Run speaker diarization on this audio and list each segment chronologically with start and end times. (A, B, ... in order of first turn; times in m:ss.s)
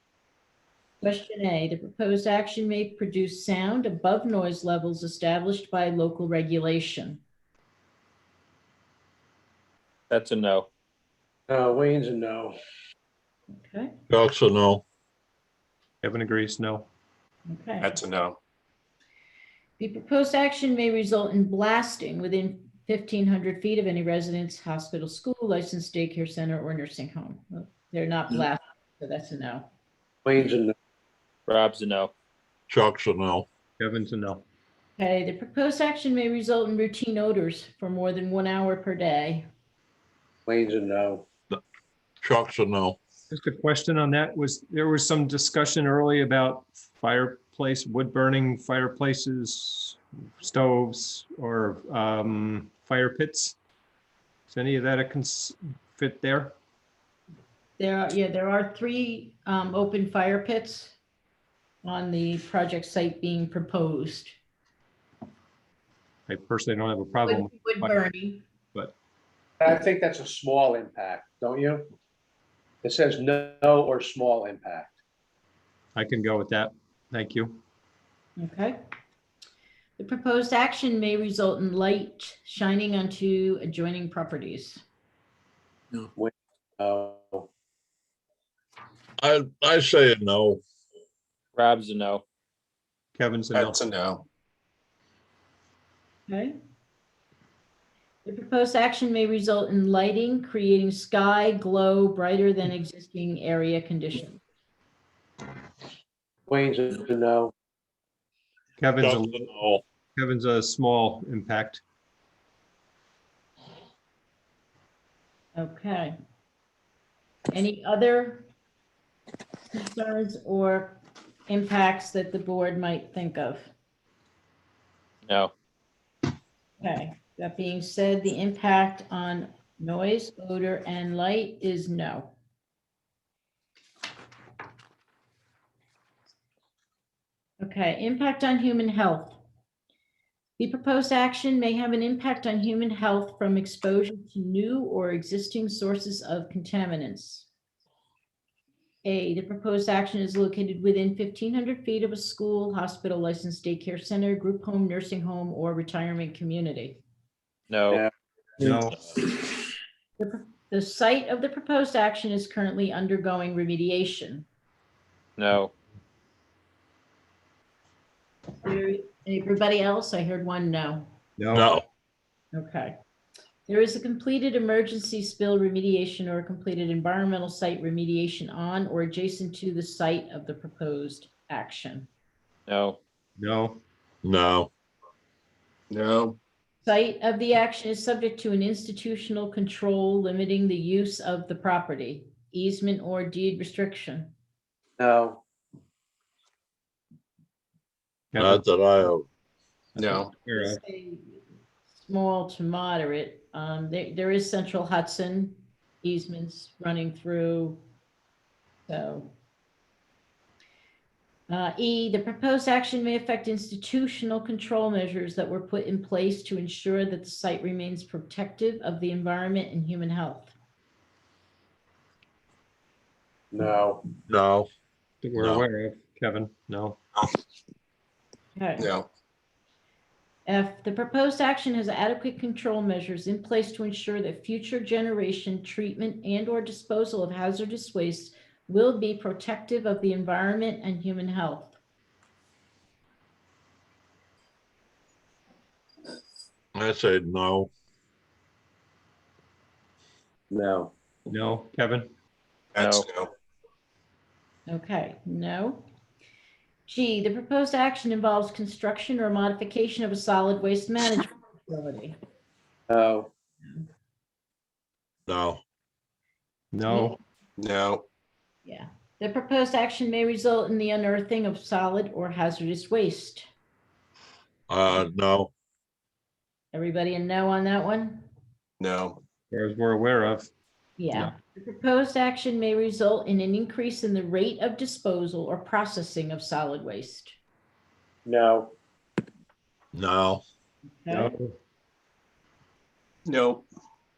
0:01.0-0:07.2 A
0:10.1-0:10.7 B
0:11.5-0:12.6 C
0:13.5-0:14.0 A
0:14.1-0:14.8 D
0:16.0-0:16.9 E
0:17.5-0:18.0 A
0:17.8-0:18.4 F
0:19.8-0:29.7 A
0:30.2-0:30.7 C
0:31.5-0:32.1 B
0:32.7-0:33.5 D
0:33.8-0:34.4 E
0:35.0-0:39.5 A
0:40.5-0:41.3 C
0:42.2-0:43.0 D
0:43.3-0:53.6 E
0:54.5-0:56.6 E
0:57.8-1:01.0 A
1:01.8-1:04.4 A
1:06.3-1:08.0 E
1:07.3-1:08.4 A
1:09.6-1:11.9 C
1:12.8-1:14.9 C
1:16.0-1:17.6 E
1:18.4-1:18.8 A
1:20.0-1:24.8 A
1:26.2-1:27.5 C
1:29.2-1:30.6 D
1:31.6-1:32.2 B
1:33.2-1:33.8 E
1:33.5-1:34.2 F
1:36.3-1:36.6 A
1:38.2-1:44.4 A
1:46.5-1:47.5 C
1:48.8-1:49.5 E
1:49.0-1:49.8 D
1:50.2-1:51.8 E
1:55.6-1:56.2 A
1:57.5-1:58.5 A
1:59.7-2:03.7 A
2:05.3-2:05.5 B
2:06.8-2:12.3 A
2:17.6-2:19.4 A
2:20.6-2:27.5 A
2:29.0-2:37.0 A
2:37.7-2:38.0 B
2:38.6-2:39.0 E
2:40.2-2:44.5 A
2:45.4-2:45.7 B
2:48.6-2:51.1 A
2:51.4-2:51.7 E
2:51.5-2:51.8 D
2:52.5-2:52.9 A
2:53.7-3:02.1 A
3:02.7-3:03.0 B
3:03.4-3:03.8 E
3:04.2-3:04.7 D
3:05.9-3:06.4 F
3:06.8-3:14.3 A
3:15.0-3:15.4 C
3:18.3-3:18.7 E
3:18.4-3:19.3 D
3:20.0-3:20.8 E
3:20.0-3:20.3 F
3:20.5-3:27.8 A
3:28.9-3:29.3 A
3:31.5-3:40.5 A
3:43.5-3:44.1 C
3:44.3-3:44.7 D
3:45.2-3:47.0 E
3:45.4-3:45.6 D
3:48.6-3:48.9 A
3:48.8-3:49.1 F
3:50.5-4:01.8 A
4:06.8-4:07.7 D
4:10.5-4:10.9 C
4:11.3-4:12.1 E
4:12.8-4:13.3 F
4:12.8-4:13.1 B
4:14.7-4:15.9 A
4:16.9-4:22.2 A
4:22.9-4:23.3 C
4:25.3-4:25.6 D
4:26.7-4:27.2 E
4:26.9-4:27.2 A
4:27.6-4:28.0 F
4:28.6-4:33.5 A
4:34.7-4:35.5 D
4:36.7-4:38.2 A
4:38.8-4:39.2 F
4:39.5-4:40.5 E
4:41.0-4:47.4 A
4:48.3-4:48.8 C
4:49.9-4:50.4 D
4:51.0-4:51.3 A
4:51.1-4:51.5 E
4:53.2-4:53.7 F